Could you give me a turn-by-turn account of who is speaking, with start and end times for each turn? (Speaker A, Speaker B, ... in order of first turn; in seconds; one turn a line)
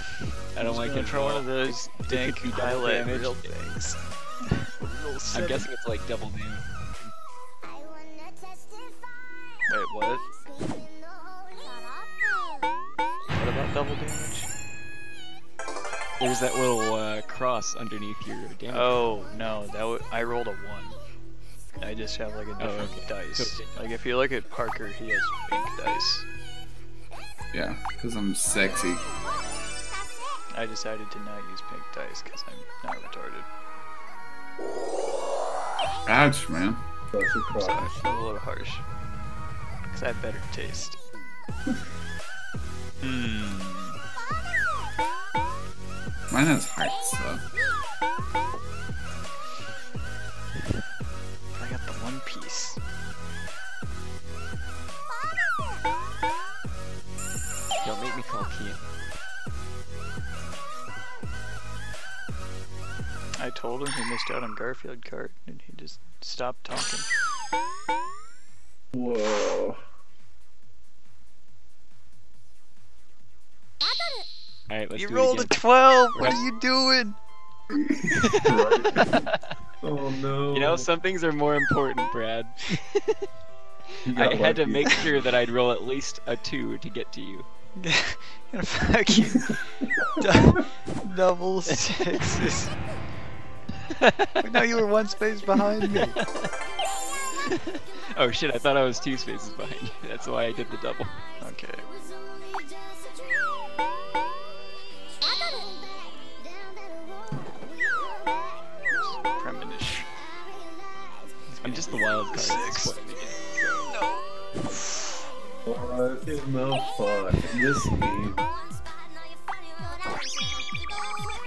Speaker A: 0.5-3.5
Speaker B: 0.6-4.0
Speaker B: 4.6-5.6
Speaker A: 5.3-6.7
Speaker B: 9.7-10.2
Speaker B: 13.3-14.5
Speaker A: 16.2-19.0
Speaker B: 18.7-21.0
Speaker B: 21.8-26.2
Speaker A: 22.6-23.7
Speaker C: 27.5-29.1
Speaker B: 30.5-33.5
Speaker C: 36.0-36.8
Speaker D: 37.1-38.1
Speaker B: 37.6-38.8
Speaker B: 39.9-41.0
Speaker B: 43.0-43.9
Speaker C: 46.3-47.5
Speaker B: 51.6-52.8
Speaker A: 57.8-58.8
Speaker B: 63.4-67.1
Speaker D: 68.9-69.8
Speaker A: 74.7-75.5
Speaker B: 75.0-77.2
Speaker D: 77.7-79.1
Speaker A: 78.3-79.2
Speaker D: 79.8-80.9
Speaker A: 80.5-83.2
Speaker D: 84.0-85.3
Speaker A: 84.1-87.5
Speaker B: 87.8-92.7
Speaker A: 93.9-94.4
Speaker B: 94.4-96.2
Speaker A: 96.0-96.5
Speaker A: 97.3-101.1
Speaker B: 101.4-101.8
Speaker B: 108.9-110.1
Speaker B: 111.5-115.1
Speaker A: 111.6-113.9
Speaker D: 115.7-118.5